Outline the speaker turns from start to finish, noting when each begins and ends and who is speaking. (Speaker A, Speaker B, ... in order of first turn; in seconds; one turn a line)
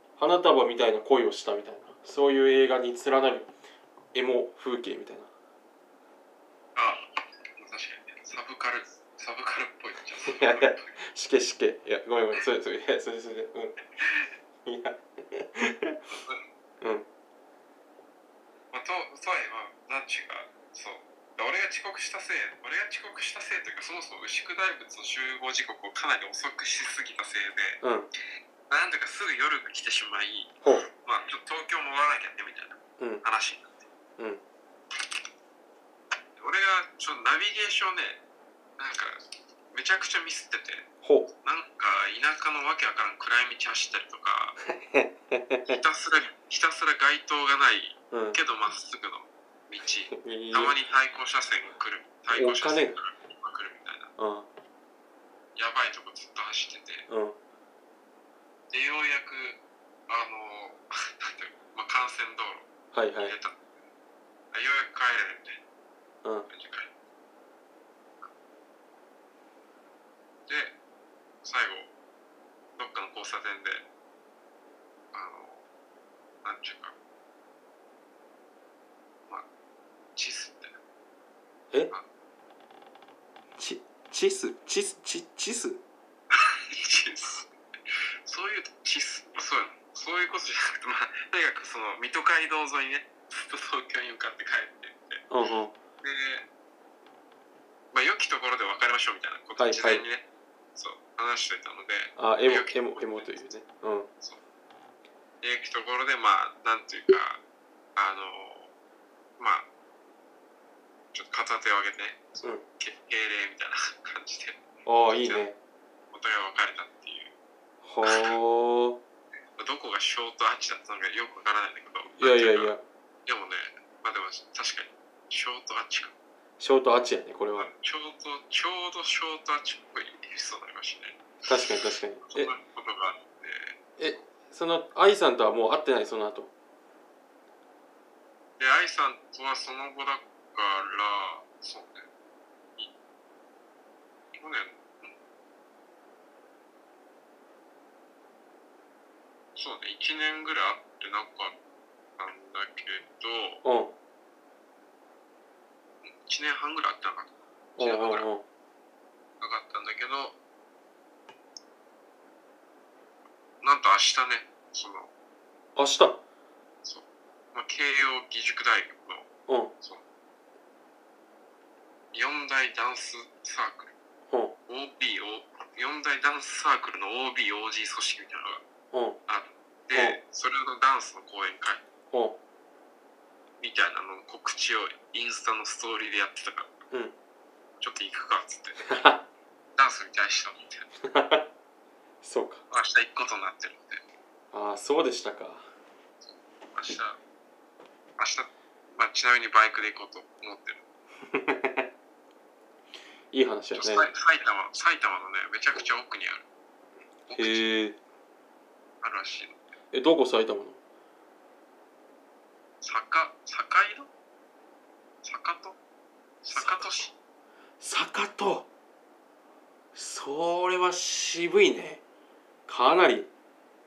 Speaker A: 0.2-3.5
Speaker A: 4.1-5.3
Speaker B: 6.7-10.9
Speaker A: 10.2-13.8
Speaker A: 14.6-16.0
Speaker B: 16.1-16.4
Speaker A: 16.8-17.1
Speaker B: 18.7-27.8
Speaker A: 27.8-28.1
Speaker B: 28.7-33.8
Speaker B: 36.4-38.2
Speaker B: 38.8-39.2
Speaker B: 39.7-40.9
Speaker A: 41.0-41.3
Speaker B: 41.4-44.5
Speaker A: 44.6-45.8
Speaker B: 45.6-54.1
Speaker A: 48.1-48.4
Speaker A: 50.1-50.8
Speaker A: 52.3-53.0
Speaker A: 54.2-54.5
Speaker B: 55.5-57.0
Speaker A: 57.1-57.4
Speaker B: 58.7-62.7
Speaker A: 62.9-63.4
Speaker B: 63.2-63.6
Speaker B: 64.5-65.6
Speaker B: 66.5-66.9
Speaker B: 70.5-70.8
Speaker B: 71.4-71.9
Speaker B: 72.8-73.8
Speaker B: 75.1-75.7
Speaker B: 76.4-76.9
Speaker B: 80.1-80.8
Speaker A: 83.6-85.8
Speaker B: 86.3-87.5
Speaker B: 88.2-95.2
Speaker A: 95.3-95.7
Speaker B: 96.0-96.5
Speaker B: 97.9-103.5
Speaker A: 99.6-100.0
Speaker A: 102.2-104.1
Speaker B: 105.4-107.4
Speaker B: 108.0-108.7
Speaker B: 109.4-109.7
Speaker B: 111.1-115.5
Speaker A: 114.8-115.5
Speaker B: 116.1-117.3
Speaker A: 117.8-119.0
Speaker B: 118.0-118.3
Speaker B: 119.6-122.7
Speaker A: 122.2-122.8
Speaker B: 123.2-126.1
Speaker A: 126.6-127.7
Speaker B: 127.5-134.2
Speaker A: 131.5-132.5
Speaker A: 134.0-136.5
Speaker B: 138.6-142.1
Speaker B: 144.3-145.2
Speaker B: 149.5-151.6
Speaker B: 152.2-153.6
Speaker A: 153.6-153.9
Speaker B: 156.0-158.3
Speaker A: 157.8-158.4
Speaker B: 159.4-160.4
Speaker B: 163.6-165.1
Speaker A: 165.8-166.2
Speaker B: 166.8-170.0
Speaker A: 169.5-169.7
Speaker B: 172.1-173.9
Speaker A: 174.3-174.5
Speaker B: 174.7-178.6
Speaker A: 178.9-179.2
Speaker B: 179.3-181.8
Speaker A: 179.9-180.2
Speaker A: 182.1-182.4
Speaker B: 183.6-186.8
Speaker B: 187.8-188.8
Speaker A: 188.8-189.2
Speaker B: 189.8-190.9
Speaker A: 191.0-191.5
Speaker A: 192.2-192.6
Speaker B: 192.7-194.0
Speaker A: 194.5-195.7
Speaker B: 196.2-197.2
Speaker B: 198.2-200.8
Speaker A: 201.2-201.9
Speaker A: 203.3-204.1
Speaker B: 203.7-206.4
Speaker B: 207.3-207.6
Speaker A: 207.3-208.0
Speaker B: 209.0-209.6
Speaker A: 209.9-210.8
Speaker B: 212.8-214.1
Speaker B: 215.2-215.8
Speaker B: 216.4-217.1
Speaker A: 216.5-217.1
Speaker A: 217.8-218.7
Speaker A: 219.9-222.0
Speaker A: 222.7-223.3